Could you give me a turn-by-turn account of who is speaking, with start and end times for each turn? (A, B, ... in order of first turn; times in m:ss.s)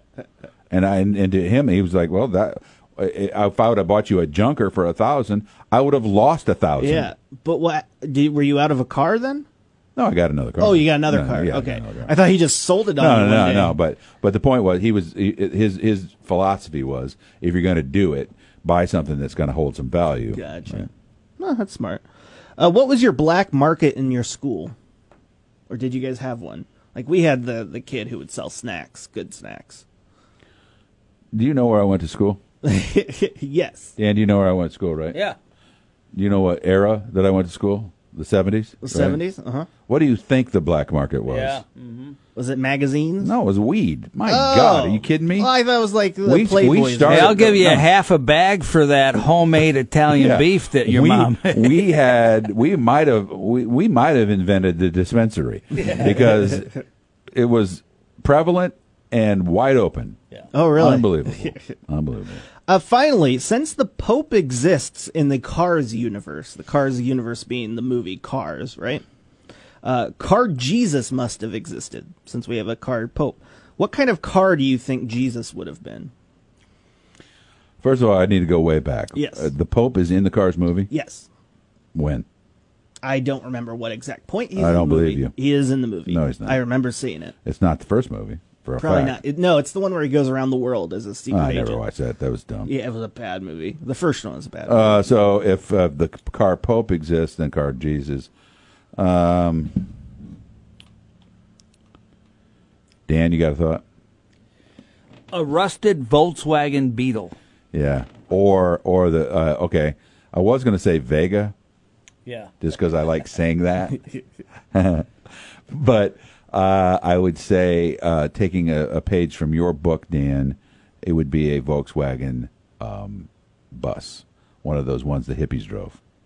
0:00.7-0:07.1 A
0:06.8-0:09.5 B
0:10.0-0:12.1 A
0:10.6-0:13.8 B
0:13.0-0:20.9 A
0:20.3-0:22.0 B
0:22.6-0:24.7 B
0:25.7-0:29.8 B
0:31.3-0:32.4 A
0:32.6-0:33.9 B
0:34.0-0:35.2 A
0:35.1-0:35.4 C
0:36.1-0:39.2 A
0:38.8-0:39.7 B
0:39.9-0:41.6 A
0:41.3-0:42.2 C
0:42.3-0:43.3 B
0:43.2-0:45.5 A
0:44.2-0:47.6 B
0:46.2-0:47.9 A
0:47.0-0:52.0 C
0:50.1-1:00.2 A
0:55.8-0:56.1 C
1:00.5-1:01.7 B
1:00.8-1:02.4 A
1:02.6-1:09.0 B
1:09.8-1:16.1 B
1:17.8-1:20.9 A
1:19.1-1:19.5 B
1:20.9-1:21.3 B
1:21.9-1:22.2 A
1:23.0-1:27.3 B
1:24.5-1:25.3 A
1:26.1-1:26.6 A
1:27.4-1:29.2 A
1:28.8-1:31.8 B
1:31.3-1:32.7 A
1:32.6-1:35.1 B
1:34.6-1:38.3 A
1:39.0-1:39.8 A
1:43.1-1:43.8 A
1:45.3-1:47.3 C
1:47.7-1:51.5 A
1:52.2-1:52.5 C
1:52.6-1:54.0 A
1:54.7-1:55.1 A
1:55.7-2:06.0 A